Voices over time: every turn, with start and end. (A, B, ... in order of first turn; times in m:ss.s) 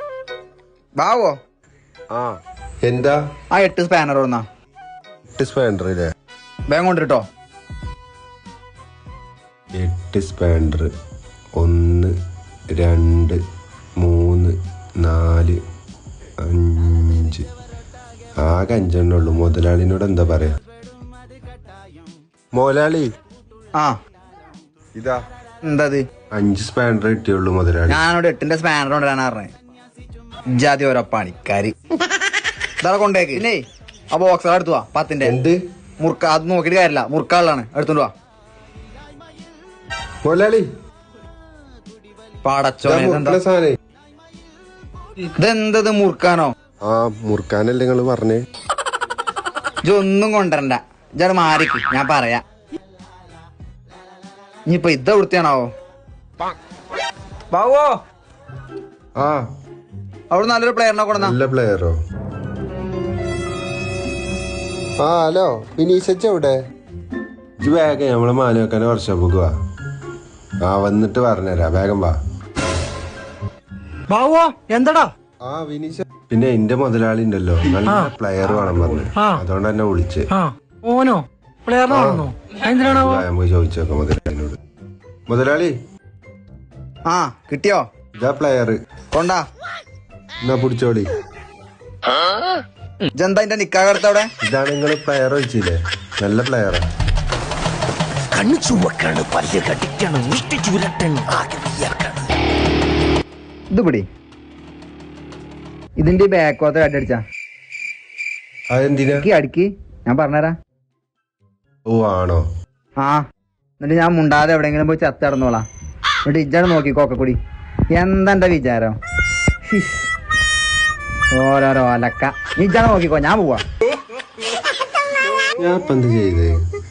0:01.0-0:01.4 A
0:02.8-0:03.2 B
0:03.5-0:04.4 A
0:05.4-0:06.1 B
0:06.7-0:07.2 A
0:09.8-0:10.9 B
0:11.6-0:12.1 B
0:12.7-0:13.4 B
0:14.0-0:15.6 B
0:16.4-0:17.5 B
0:18.4-0:20.6 B
0:22.5-0:23.1 B
0:25.0-0:25.2 B
0:25.6-0:26.0 A
0:26.3-0:28.0 B
0:27.9-0:29.5 A
0:30.5-0:31.8 A
0:32.8-0:35.4 A
0:35.2-0:35.6 B
0:36.0-0:38.1 A
0:40.2-0:40.7 B
0:42.4-0:43.4 A
0:42.8-0:43.8 B
0:45.2-0:46.5 A
0:46.8-0:48.4 B
0:49.8-0:52.4 A
0:54.7-0:55.7 A
0:57.5-0:58.0 A
0:59.2-0:59.5 B
1:00.3-1:01.4 A
1:01.2-1:02.0 B
1:05.0-1:06.6 B
1:07.6-1:09.5 B
1:10.6-1:12.2 B
1:14.1-1:15.1 C
1:15.4-1:20.3 B
1:17.8-1:18.1 C
1:19.1-1:19.4 C
1:20.3-1:23.3 C
1:21.9-1:22.3 B
1:22.8-1:24.6 B
1:25.3-1:25.7 B
1:27.1-1:27.8 A
1:28.2-1:28.8 B
1:29.1-1:29.4 A
1:30.4-1:31.1 B
1:33.2-1:34.3 A
1:34.4-1:36.9 B
1:38.3-1:42.2 D
1:43.7-1:44.1 A
1:46.0-1:47.2 A
1:48.7-1:49.3 B
1:49.2-1:50.6 A
1:51.9-1:52.4 B
1:53.8-1:55.6 A
1:56.3-1:57.4 A
1:57.9-1:59.0 A
1:59.6-2:00.1 A
2:01.3-2:03.6 A
2:05.6-2:06.6 B